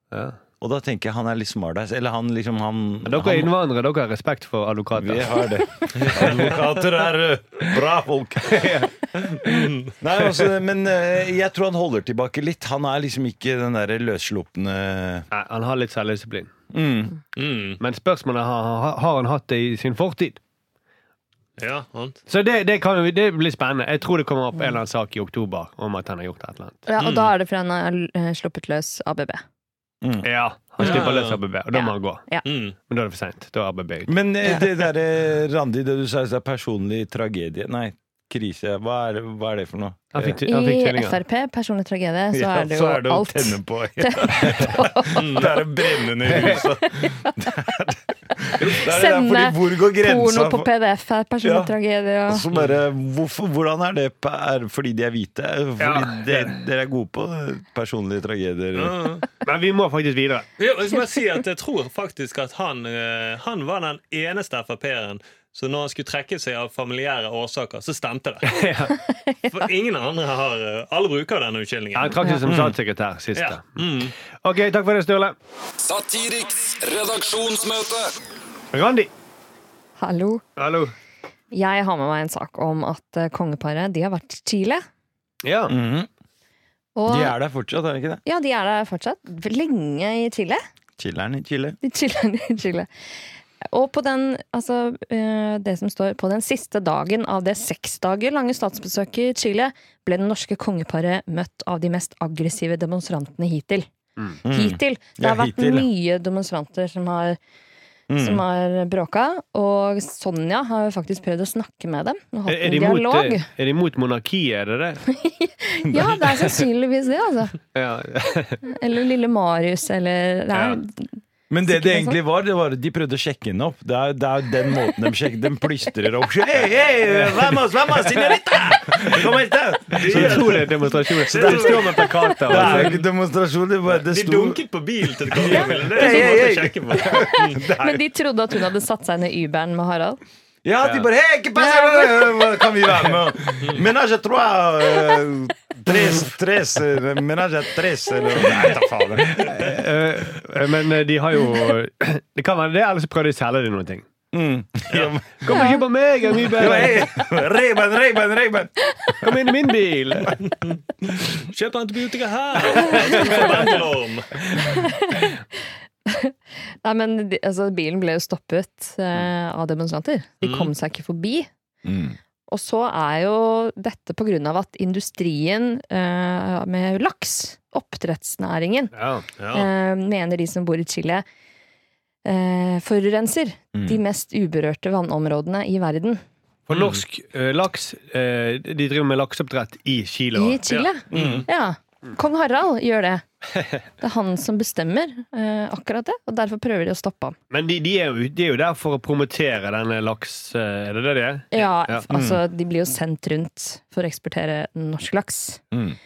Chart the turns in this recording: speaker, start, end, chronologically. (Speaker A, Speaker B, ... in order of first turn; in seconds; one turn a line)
Speaker A: 0.1-0.4
Speaker B: 0.6-3.5
Speaker A: 3.0-5.5
Speaker B: 5.0-9.2
Speaker A: 6.1-6.5
Speaker A: 8.4-8.9
Speaker C: 9.4-10.0
Speaker B: 10.0-15.2
Speaker A: 15.3-16.5
Speaker B: 16.7-17.1
Speaker C: 17.3-17.8
Speaker A: 17.8-20.4
Speaker C: 21.6-22.2
Speaker A: 22.3-26.8
Speaker D: 26.9-29.4
Speaker C: 27.0-27.3
Speaker A: 30.2-32.2
Speaker C: 30.8-31.4
Speaker D: 31.7-32.5
Speaker C: 32.4-32.7
Speaker A: 32.9-34.1
Speaker B: 34.0-40.4
Speaker A: 40.1-41.2
Speaker D: 40.5-47.5
Speaker B: 42.3-50.7
Speaker C: 45.1-45.5
Speaker D: 48.6-52.5
Speaker B: 51.4-51.7
Speaker B: 52.3-59.0
Speaker A: 55.8-56.6
Speaker C: 58.7-59.2
Speaker A: 59.4-60.5
Speaker C: 60.6-68.6
Speaker A: 68.4-68.9
Speaker D: 69.1-69.7
Speaker C: 69.5-72.5
Speaker A: 71.9-73.9
Speaker C: 73.3-74.1
Speaker A: 74.4-75.3
Speaker E: 75.8-78.1
Speaker A: 78.7-79.1
Speaker D: 80.0-80.4
Speaker A: 80.6-80.9
Speaker D: 81.5-84.8
Speaker A: 85.4-85.8
Speaker B: 85.7-86.1
Speaker D: 87.0-87.3
Speaker B: 87.0-88.2
Speaker D: 88.2-90.6
Speaker B: 91.0-91.8
Speaker D: 91.8-92.9
Speaker D: 93.6-103.9
Speaker B: 104.4-105.9
Speaker D: 104.5-107.4
Speaker B: 108.1-108.4
Speaker D: 108.2-113.5
Speaker A: 112.5-115.0
Speaker D: 115.1-117.6
Speaker B: 115.9-116.2
Speaker A: 117.7-118.6
Speaker D: 118.7-121.1
Speaker A: 120.5-120.8
Speaker B: 121.5-130.7
Speaker D: 121.7-122.2
Speaker A: 127.1-127.5
Speaker C: 129.9-133.0
Speaker A: 130.0-133.0
Speaker B: 131.3-134.6
Speaker C: 133.9-137.6
Speaker B: 135.2-138.0
Speaker D: 135.5-140.2
Speaker B: 140.6-149.6
Speaker D: 141.6-142.4
Speaker A: 149.3-154.1
Speaker B: 154.3-155.7
Speaker C: 154.9-155.2
Speaker A: 155.4-157.1
Speaker D: 155.5-155.8
Speaker B: 156.5-158.7
Speaker A: 159.2-160.3
Speaker C: 160.6-164.4
Speaker D: 162.8-163.7
Speaker A: 162.8-163.2
Speaker D: 164.6-165.3
Speaker D: 166.1-171.5
Speaker C: 170.4-170.7
Speaker B: 171.8-172.2
Speaker D: 172.5-178.9
Speaker A: 178.9-179.2
Speaker C: 179.4-179.7
Speaker D: 179.5-181.2
Speaker D: 182.2-186.2
Speaker B: 183.7-184.0
Speaker A: 186.7-190.6
Speaker C: 186.7-187.0
Speaker D: 190.3-193.2
Speaker C: 190.7-191.5
Speaker B: 191.1-191.5
Speaker A: 193.5-193.8
Speaker D: 194.0-197.3
Speaker A: 197.5-202.1
Speaker D: 201.5-205.6
Speaker B: 202.1-202.4
Speaker B: 205.7-206.0